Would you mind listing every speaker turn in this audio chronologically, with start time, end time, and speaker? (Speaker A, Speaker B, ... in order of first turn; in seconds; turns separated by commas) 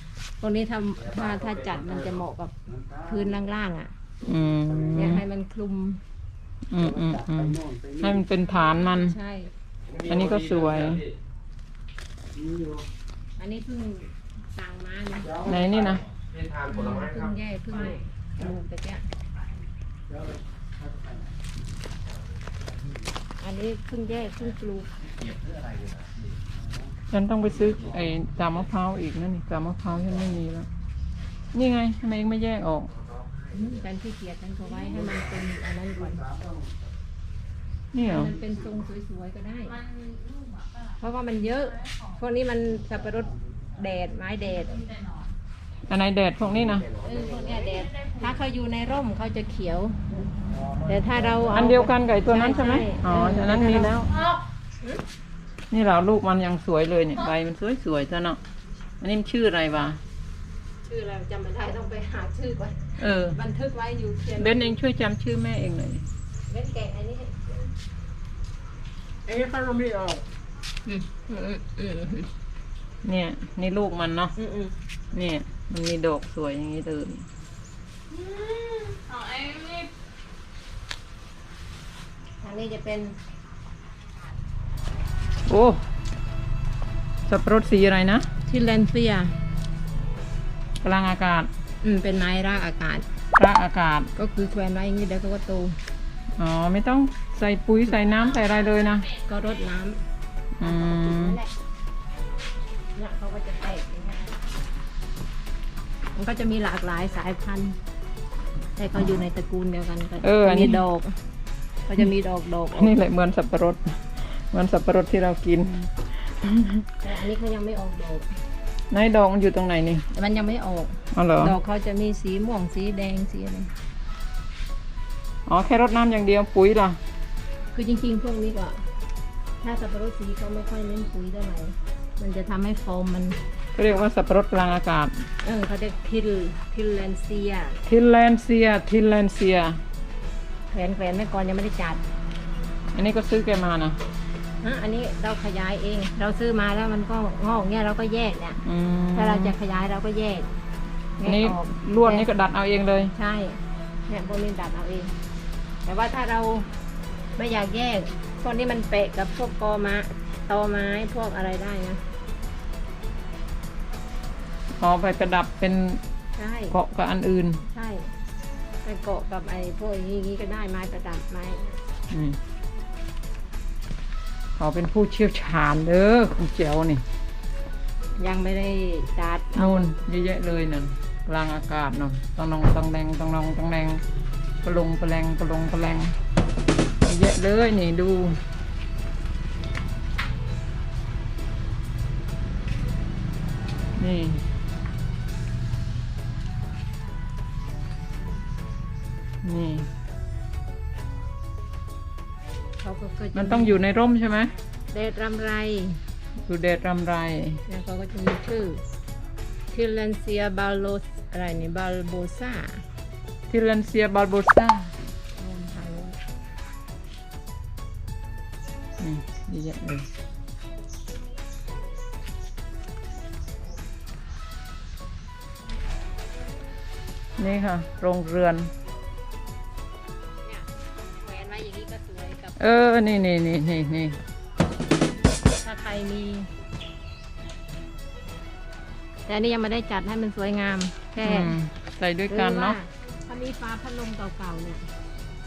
Speaker A: 0.4-3.9, Speaker B: 4.2-5.2, Speaker A: 4.9-6.0, Speaker B: 6.7-9.2, Speaker A: 8.5-9.5, Speaker C: 9.9-11.0, Speaker B: 10.0-11.0, Speaker A: 13.4-15.5, Speaker B: 15.4-16.0, Speaker C: 16.3-16.6, Speaker A: 16.6-19.0, Speaker A: 23.4-24.9, Speaker C: 25.4-26.1, Speaker B: 27.1-30.7, Speaker B: 31.5-32.9, Speaker A: 33.5-36.3, Speaker B: 37.9-38.4, Speaker A: 38.0-39.8, Speaker A: 41.0-45.0, Speaker B: 45.9-46.9, Speaker A: 47.0-50.0, Speaker A: 50.8-55.0, Speaker B: 51.5-54.1, Speaker B: 55.7-58.4, Speaker B: 59.0-60.0, Speaker A: 60.8-64.8, Speaker B: 63.0-63.4, Speaker B: 64.4-66.1, Speaker A: 66.5-67.6, Speaker A: 69.3-70.2, Speaker A: 70.8-72.3, Speaker B: 73.0-74.3, Speaker A: 74.4-74.7, Speaker B: 75.1-77.3, Speaker A: 78.1-79.8, Speaker A: 82.4-83.1, Speaker B: 85.5-85.8, Speaker B: 87.3-88.2, Speaker A: 88.5-89.3, Speaker B: 90.8-91.5, Speaker A: 91.8-93.0, Speaker B: 93.3-94.1, Speaker A: 94.2-95.8, Speaker B: 96.4-99.1, Speaker A: 99.2-100.0, Speaker B: 100.6-101.4, Speaker A: 100.6-101.5, Speaker A: 102.9-104.4, Speaker A: 106.1-107.8, Speaker A: 108.8-111.1, Speaker B: 110.2-110.8, Speaker A: 111.9-113.0, Speaker B: 112.7-116.8, Speaker A: 117.0-118.3, Speaker B: 118.9-120.0, Speaker A: 120.1-123.7, Speaker B: 121.1-121.5, Speaker B: 125.5-127.0, Speaker A: 127.7-128.8, Speaker A: 129.6-133.4, Speaker B: 133.7-135.2, Speaker A: 135.4-137.8, Speaker B: 137.8-139.8, Speaker A: 140.7-142.0, Speaker B: 142.9-144.0, Speaker A: 144.6-148.6, Speaker B: 148.6-149.5, Speaker A: 149.1-150.5, Speaker A: 151.2-152.3, Speaker B: 151.2-153.1, Speaker A: 153.1-155.1, Speaker A: 155.8-156.7, Speaker A: 157.3-162.0, Speaker B: 164.8-166.0, Speaker A: 166.3-166.7, Speaker B: 166.7-167.6, Speaker A: 167.7-168.1, Speaker A: 168.8-171.8, Speaker B: 172.1-172.4, Speaker B: 174.6-177.0, Speaker A: 178.2-179.9, Speaker B: 179.5-184.0, Speaker B: 184.6-186.2, Speaker B: 187.0-188.4, Speaker B: 194.0-194.4, Speaker B: 199.4-199.9, Speaker A: 202.8-203.8, Speaker B: 203.3-204.5, Speaker A: 204.9-206.0, Speaker B: 206.4-207.6, Speaker A: 207.7-208.8, Speaker A: 209.7-212.8, Speaker B: 213.5-214.9, Speaker A: 215.4-216.2, Speaker B: 219.0-220.1, Speaker B: 227.4-228.7, Speaker A: 230.4-232.6, Speaker B: 232.6-234.2, Speaker A: 235.5-236.5, Speaker A: 239.2-241.6, Speaker B: 241.2-242.8, Speaker A: 242.3-244.9